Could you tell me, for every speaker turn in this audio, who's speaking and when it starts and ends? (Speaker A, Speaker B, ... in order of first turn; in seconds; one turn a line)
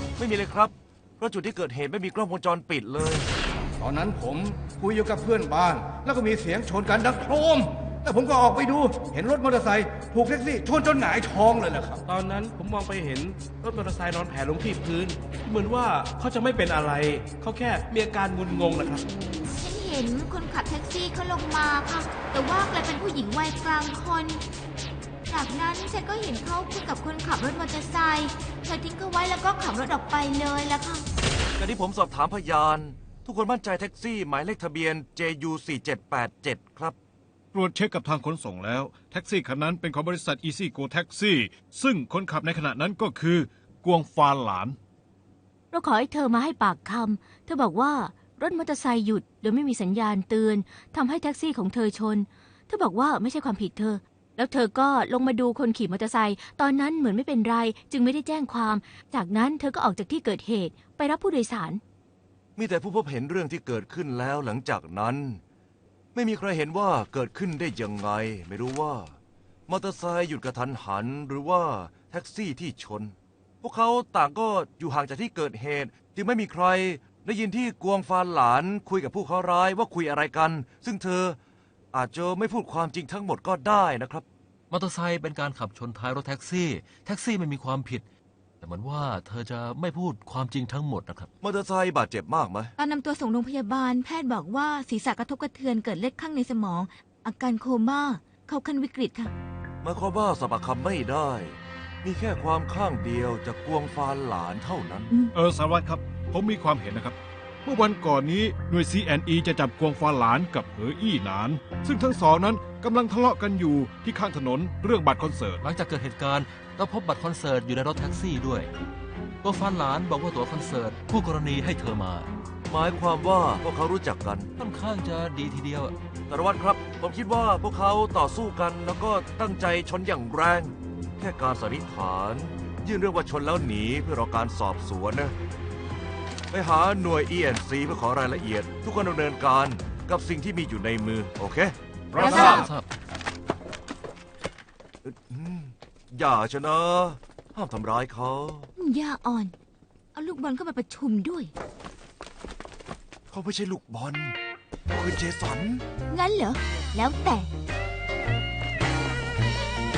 Speaker A: 0.2-3.3
Speaker B: 3.8-12.0
Speaker C: 12.1-19.1
Speaker D: 19.6-24.4
Speaker D: 25.3-31.1
Speaker A: 31.6-37.0
Speaker E: 37.5-44.8
Speaker F: 45.7-61.8
Speaker A: 62.6-65.4
Speaker A: 66.2-69.2
Speaker A: 69.7-81.4
Speaker A: 81.9-84.2
Speaker G: 84.7-88.0
Speaker G: 88.6-91.3
Speaker A: 91.4-92.7
Speaker D: 92.8-99.3
Speaker A: 99.8-105.1
Speaker E: 105.3-115.6
Speaker G: 115.6-118.7
Speaker G: 119.4-122.3
Speaker A: 122.7-124.5
Speaker G: 124.6-126.0
Speaker A: 126.3-135.3
Speaker A: 136.5-141.7
Speaker E: 142.1-142.7
Speaker G: 142.2-142.9
Speaker D: 142.2-142.6
Speaker A: 142.3-142.6
Speaker A: 145.0-148.7
Speaker D: 148.8-149.5
Speaker D: 150.2-151.5
Speaker A: 153.3-154.4
Speaker A: 154.9-155.8
Speaker D: 156.1-157.5